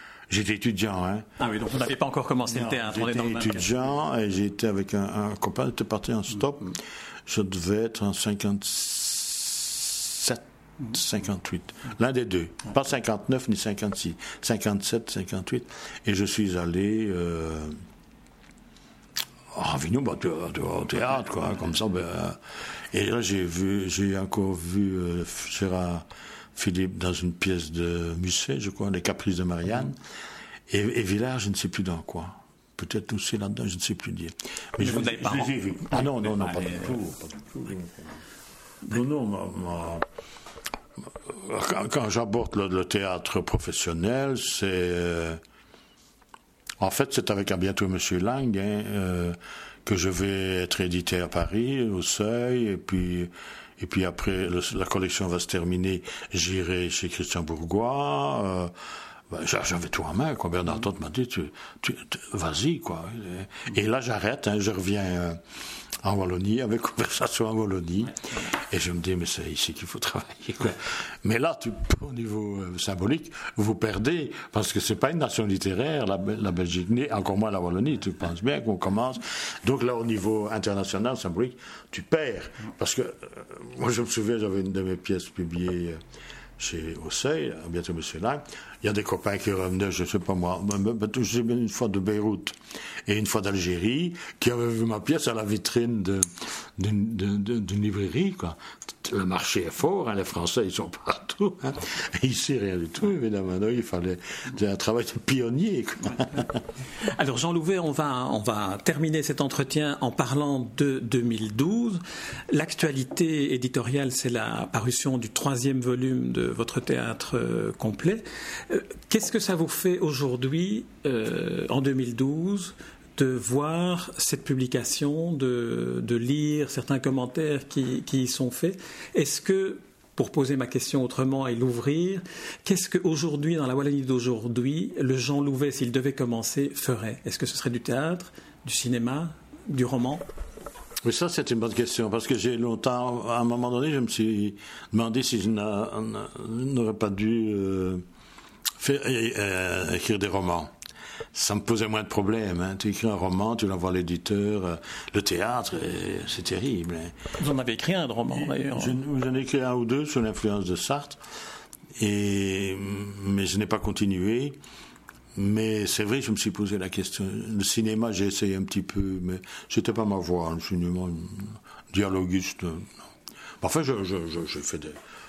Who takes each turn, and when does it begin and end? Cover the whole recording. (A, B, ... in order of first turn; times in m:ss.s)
0:00.3-0:01.3 A
0:01.4-0:03.7 B
0:02.4-0:17.8 A
0:19.5-0:30.0 A
0:30.7-0:38.2 A
0:34.8-0:36.9 B
0:38.8-0:40.0 A
0:41.0-0:45.4 A
0:46.8-0:58.7 A
0:59.3-1:05.4 A
1:06.0-1:26.0 A
1:26.6-1:46.6 A
1:47.0-2:20.2 B
2:21.0-2:28.0 A
2:28.8-2:30.7 A
2:31.3-2:37.2 A
2:37.4-2:39.0 B
2:38.3-2:41.2 A
2:42.0-2:44.6 A
2:45.3-2:53.1 A
2:53.6-2:55.0 A